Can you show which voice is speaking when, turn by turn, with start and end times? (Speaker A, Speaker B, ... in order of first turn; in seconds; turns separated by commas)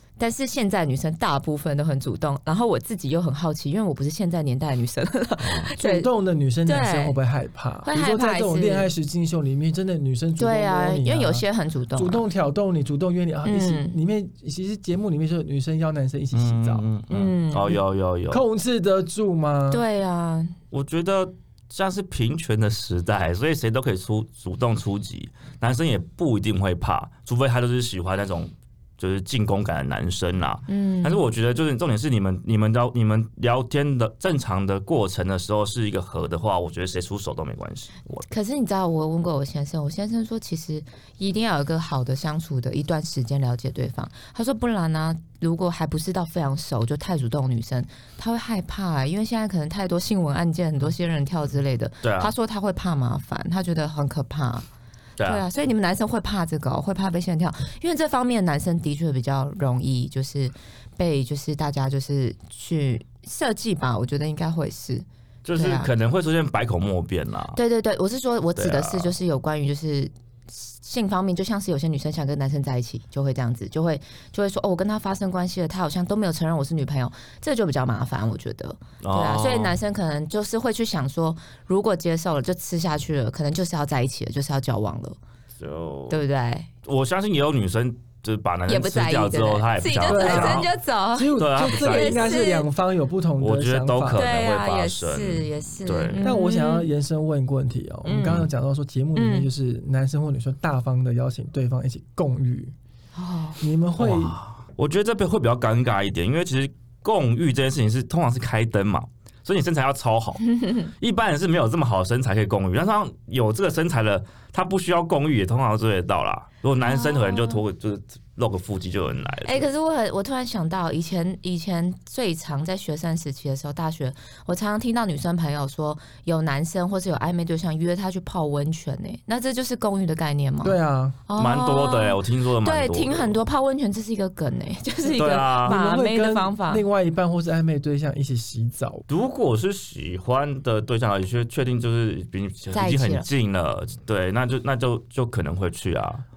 Speaker A: 0.2-6.1, Speaker B: 5.8-16.8, Speaker A: 6.6-7.2, Speaker A: 7.8-8.9, Speaker A: 10.4-12.2, Speaker A: 13.4-14.0, Speaker C: 16.3-18.4, Speaker A: 17.1-17.8, Speaker B: 18.3-19.8, Speaker A: 19.7-20.6, Speaker C: 20.7-38.2, Speaker A: 30.7-31.2, Speaker A: 38.3-54.6, Speaker C: 52.0-52.3, Speaker C: 55.2-55.4, Speaker A: 55.2-65.9, Speaker C: 65.5-67.6, Speaker A: 67.5-85.2, Speaker C: 68.6-69.1, Speaker C: 79.0-79.8, Speaker C: 85.6-86.2, Speaker A: 86.1-86.7, Speaker C: 86.8-90.7, Speaker A: 88.7-92.7, Speaker B: 90.1-94.2, Speaker C: 91.4-92.4, Speaker C: 93.4-96.2, Speaker A: 94.1-96.9, Speaker B: 96.2-102.7, Speaker A: 98.0-98.5, Speaker A: 99.2-99.5, Speaker A: 103.1-103.6, Speaker B: 103.6-104.4, Speaker C: 104.0-119.7, Speaker A: 110.5-110.9, Speaker A: 116.8-117.6, Speaker A: 119.5-130.8, Speaker B: 130.6-131.2, Speaker A: 131.3-136.8, Speaker C: 131.4-133.4, Speaker C: 135.1-135.8, Speaker B: 135.6-139.1, Speaker C: 139.1-146.2, Speaker A: 142.7-143.3